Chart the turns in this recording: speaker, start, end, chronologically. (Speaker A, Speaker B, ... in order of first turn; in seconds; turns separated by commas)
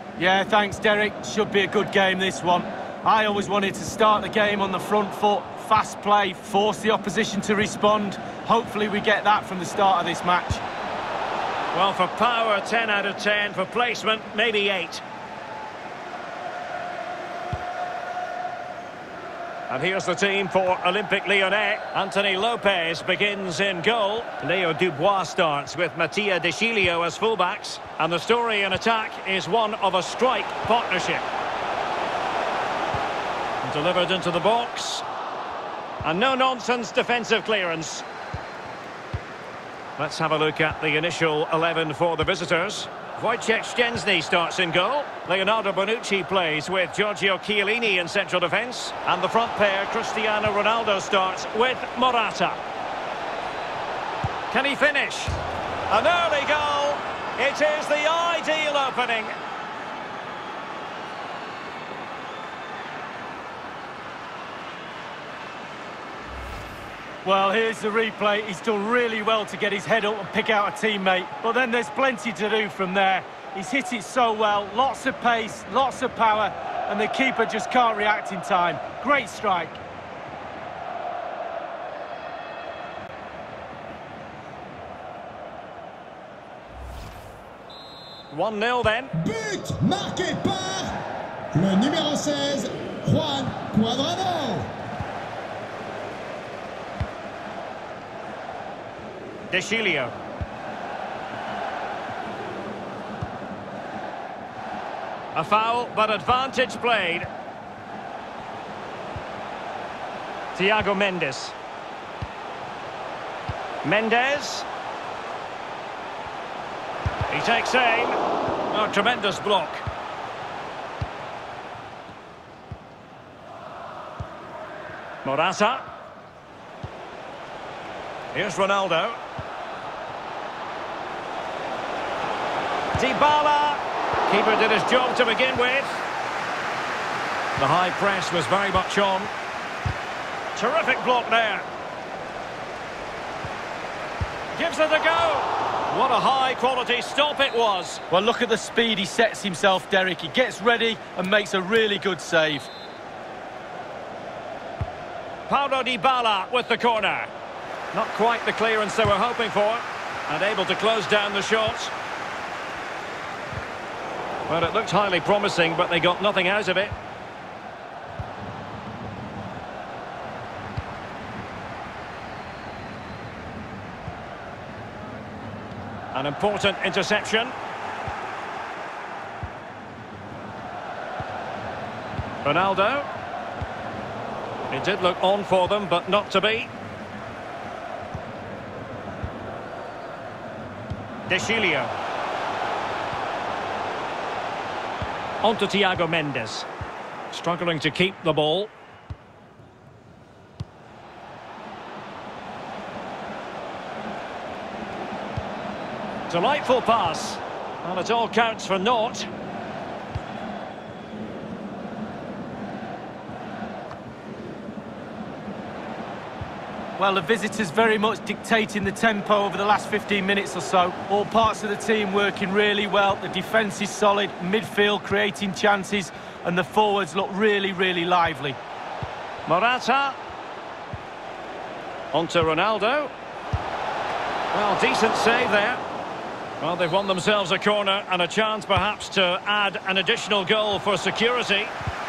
Speaker A: 0.2-10.6, Speaker B: 11.7-15.0, Speaker B: 19.7-31.2, Speaker B: 33.6-35.0, Speaker B: 36.0-38.0, Speaker B: 40.0-52.6, Speaker B: 54.5-55.3, Speaker B: 55.9-59.3, Speaker A: 67.2-79.8, Speaker B: 88.3-89.1, Speaker C: 89.1-90.9, Speaker C: 91.5-94.7, Speaker B: 99.5-100.1, Speaker B: 105.3-107.3, Speaker B: 110.5-111.5, Speaker B: 113.8-114.7, Speaker B: 117.3-118.2, Speaker B: 118.7-119.8, Speaker B: 125.2-125.8, Speaker B: 128.3-129.2, Speaker B: 132.9-136.0, Speaker B: 137.6-139.3, Speaker B: 140.5-141.6, Speaker B: 144.5-148.0, Speaker A: 148.1-152.7, Speaker B: 155.5-157.3, Speaker B: 157.9-161.9, Speaker B: 164.5-166.9, Speaker B: 176.1-177.5, Speaker B: 182.4-183.1, Speaker B: 184.7-186.7, Speaker B: 191.3-191.9, Speaker B: 195.4-196.7, Speaker B: 197.3-198.7, Speaker B: 206.3-209.3, Speaker A: 217.0-228.6, Speaker B: 229.4-230.2, Speaker B: 232.1-233.1, Speaker B: 234.5-235.8, Speaker B: 236.6-241.7